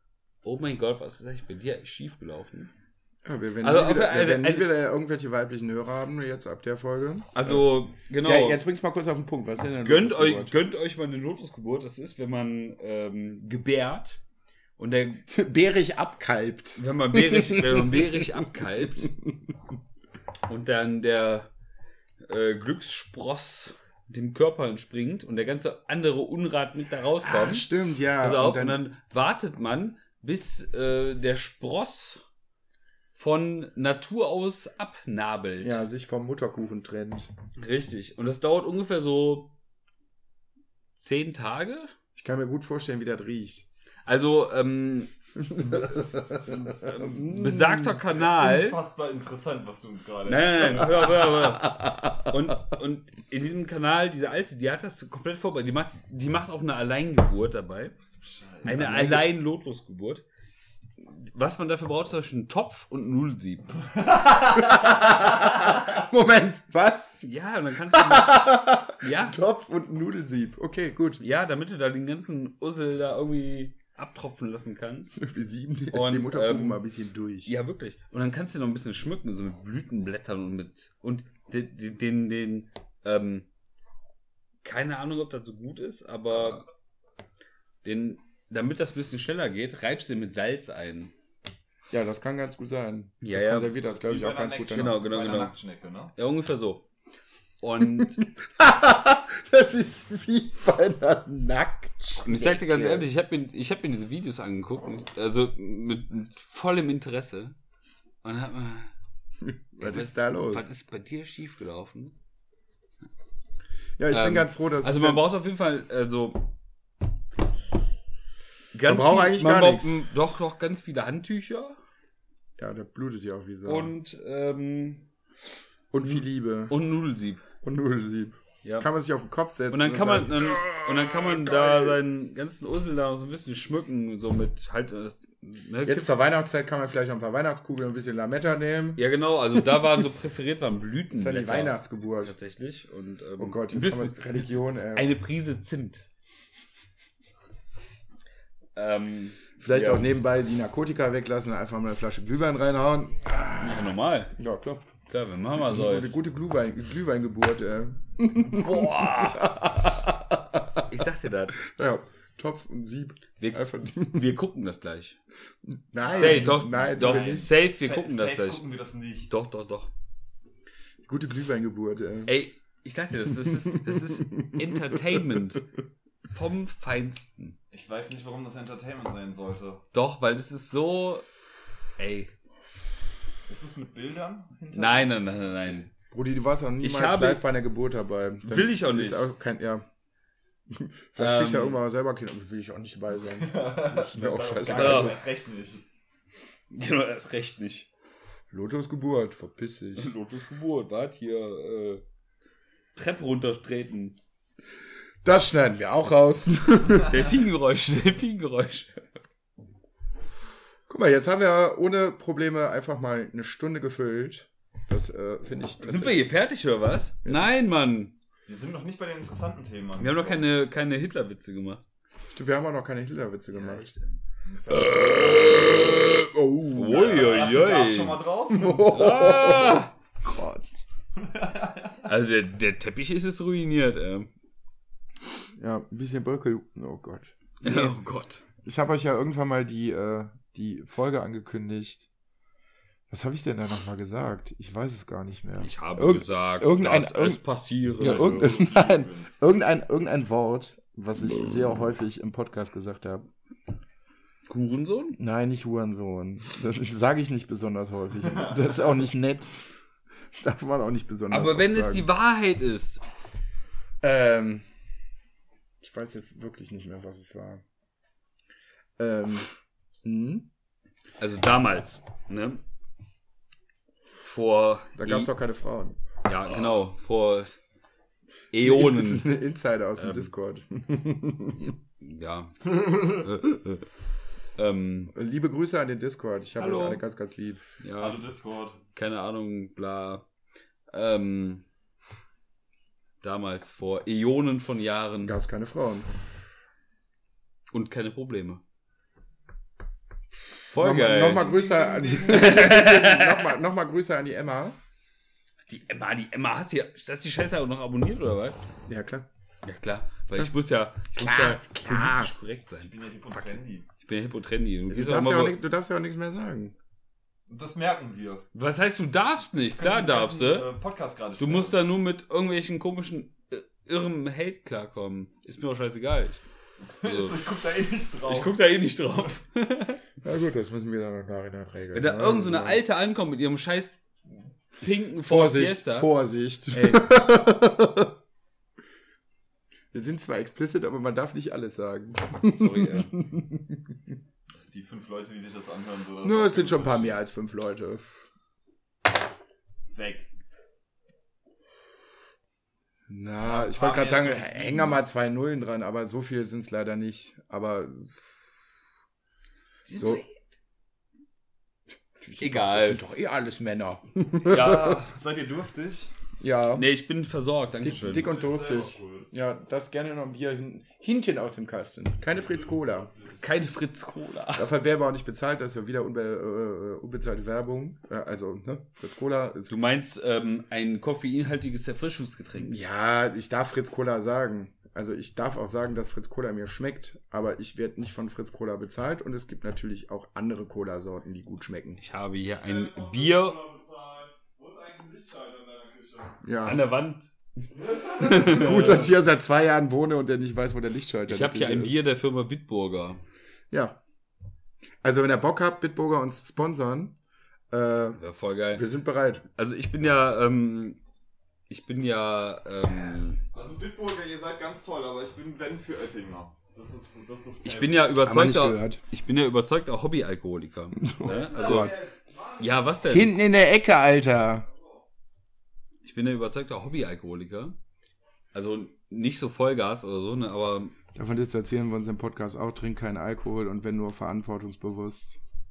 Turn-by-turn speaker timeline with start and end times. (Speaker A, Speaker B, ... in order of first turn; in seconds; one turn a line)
Speaker A: 0.4-2.7
Speaker B: 3.2-7.7
Speaker A: 3.6-4.7
Speaker A: 7.3-8.6
Speaker B: 8.2-10.5
Speaker A: 9.8-14.2
Speaker A: 14.8-15.3
Speaker B: 15.3-19.4
Speaker A: 16.8-19.1
Speaker A: 20.5-21.5
Speaker A: 22.2-27.7
Speaker B: 27.2-28.8
Speaker A: 28.2-32.2
Speaker A: 33.1-35.8
Speaker B: 35.6-37.3
Speaker A: 37.5-39.5
Speaker A: 41.0-41.9
Speaker B: 42.1-43.6
Speaker A: 44.0-46.0
Speaker B: 45.4-48.0
Speaker A: 46.5-48.8
Speaker C: 48.1-51.2
Speaker A: 50.2-58.0
Speaker B: 51.6-52.1
Speaker C: 58.2-58.8
Speaker A: 58.6-60.2
Speaker B: 58.6-59.3
Speaker A: 61.0-63.8
Speaker B: 64.5-67.3
Speaker A: 67.2-69.4
Speaker B: 67.9-71.2
Speaker A: 71.2-75.2
Speaker B: 75.2-77.5
Speaker A: 75.9-76.8
Speaker A: 77.5-83.5
Speaker A: 84.6-86.7
Speaker A: 87.8-91.1
Speaker B: 91.9-95.0
Speaker A: 93.2-93.8
Speaker C: 93.9-96.1
Speaker A: 94.7-95.5
Speaker A: 96.1-96.8
Speaker A: 97.6-98.2
Speaker B: 98.0-103.1
Speaker A: 102.2-107.5
Speaker A: 108.2-108.9
Speaker B: 109.4-110.7
Speaker A: 109.8-112.1
Speaker B: 114.0-115.2
Speaker A: 114.1-116.5
Speaker A: 118.7-121.8
Speaker B: 118.8-120.0
Speaker B: 122.6-123.9
Speaker A: 123.6-125.0
Speaker B: 125.9-126.8
Speaker A: 126.7-127.4
Speaker B: 127.6-132.0
Speaker A: 129.7-136.1
Speaker B: 135.8-139.0
Speaker A: 139.0-146.0
Speaker B: 141.1-142.3
Speaker B: 143.4-145.1
Speaker A: 148.7-150.1
Speaker B: 149.6-154.8
Speaker A: 153.6-154.3
Speaker A: 155.1-156.1
Speaker B: 155.6-160.8
Speaker A: 158.5-159.6
Speaker A: 160.9-161.6
Speaker B: 161.6-164.3
Speaker A: 163.4-165.2
Speaker B: 165.7-167.5
Speaker C: 166.0-169.3
Speaker A: 166.1-168.6
Speaker A: 169.3-169.9
Speaker B: 171.1-172.3
Speaker A: 172.3-175.7
Speaker B: 173.9-175.3
Speaker A: 176.3-177.6
Speaker C: 177.7-179.8
Speaker A: 179.9-181.2
Speaker A: 182.0-182.3
Speaker C: 183.5-185.8
Speaker A: 184.7-185.9
Speaker B: 186.1-189.9
Speaker A: 186.8-187.4
Speaker A: 188.4-189.3
Speaker B: 190.7-195.2
Speaker A: 191.2-191.8
Speaker C: 193.2-195.8
Speaker A: 194.7-195.2
Speaker A: 196.7-197.9
Speaker B: 198.5-200.1
Speaker A: 200.0-202.0
Speaker A: 202.9-204.2
Speaker B: 205.2-207.3
Speaker A: 207.1-209.1
Speaker B: 210.9-216.2
Speaker A: 215.8-218.2
Speaker B: 217.2-217.5
Speaker C: 218.4-220.5
Speaker A: 220.0-221.8
Speaker B: 222.3-223.9
Speaker A: 223.5-224.2
Speaker C: 224.4-226.1
Speaker B: 224.7-227.4
Speaker A: 226.7-228.2
Speaker C: 226.8-228.9
Speaker B: 228.5-230.8
Speaker A: 228.9-229.9
Speaker C: 231.2-231.9
Speaker A: 232.0-234.3
Speaker B: 235.6-237.9
Speaker A: 237.6-238.4
Speaker B: 238.6-242.1
Speaker B: 243.1-247.4
Speaker A: 245.6-248.5
Speaker B: 248.0-253.3
Speaker C: 248.0-249.3
Speaker A: 254.5-255.2
Speaker B: 255.2-259.6
Speaker B: 260.3-262.1
Speaker A: 261.3-263.0
Speaker B: 264.0-264.7
Speaker B: 265.8-267.6
Speaker B: 269.0-269.5
Speaker B: 270.0-270.5
Speaker A: 271.2-272.6
Speaker A: 274.2-275.3
Speaker B: 275.0-276.0
Speaker A: 276.2-277.6
Speaker A: 278.5-279.3
Speaker B: 278.6-281.8
Speaker A: 280.0-280.3
Speaker A: 282.0-283.7
Speaker B: 283.1-283.4
Speaker A: 284.6-285.1
Speaker B: 285.1-287.6
Speaker A: 286.6-287.0
Speaker A: 287.8-288.2
Speaker C: 288.0-288.8
Speaker A: 288.9-290.2
Speaker A: 290.9-291.6
Speaker A: 293.2-295.3
Speaker B: 295.2-296.1
Speaker A: 297.7-298.6
Speaker A: 300.7-301.5
Speaker B: 300.7-304.8
Speaker C: 301.2-302.6
Speaker A: 302.3-303.5
Speaker A: 305.7-308.6
Speaker B: 308.9-309.2
Speaker A: 309.6-315.6
Speaker B: 311.1-312.3
Speaker C: 312.8-313.9
Speaker B: 314.9-316.7
Speaker C: 317.5-318.4
Speaker A: 318.5-320.7
Speaker C: 319.7-321.8
Speaker A: 321.4-326.4
Speaker C: 326.9-328.5
Speaker A: 327.0-327.4
Speaker A: 328.3-330.0
Speaker B: 330.2-332.8
Speaker A: 331.9-333.9
Speaker A: 334.7-336.1
Speaker B: 335.2-338.1
Speaker A: 336.7-337.1
Speaker B: 339.9-344.1
Speaker A: 342.4-343.1
Speaker C: 344.7-347.2
Speaker B: 346.2-348.0
Speaker C: 349.9-350.4
Speaker B: 353.1-358.1
Speaker C: 353.4-355.0
Speaker A: 359.9-360.4
Speaker B: 359.9-360.2
Speaker B: 362.2-365.0
Speaker A: 362.4-363.0
Speaker C: 364.4-366.1
Speaker A: 364.5-365.0
Speaker B: 366.4-366.9
Speaker A: 366.7-368.3
Speaker B: 367.8-373.1
Speaker C: 368.0-369.3
Speaker A: 373.4-374.7
Speaker B: 374.6-379.7
Speaker A: 379.7-382.8
Speaker B: 382.6-392.0
Speaker A: 392.0-393.6
Speaker C: 392.6-396.4
Speaker B: 396.4-396.9
Speaker A: 396.6-397.3
Speaker C: 397.9-399.1
Speaker A: 397.9-399.1
Speaker B: 398.3-402.0
Speaker A: 401.3-403.2
Speaker B: 403.7-404.0
Speaker B: 405.0-407.2
Speaker B: 407.7-408.2
Speaker A: 408.1-408.9
Speaker B: 408.7-409.4
Speaker A: 409.6-411.0
Speaker A: 411.7-413.4
Speaker C: 413.5-418.1
Speaker A: 417.6-422.0
Speaker B: 418.2-419.0
Speaker B: 421.0-422.0
Speaker C: 421.2-422.6
Speaker A: 422.6-423.3
Speaker B: 423.1-424.7
Speaker A: 426.0-427.8
Speaker A: 428.5-430.9
Speaker B: 431.1-435.4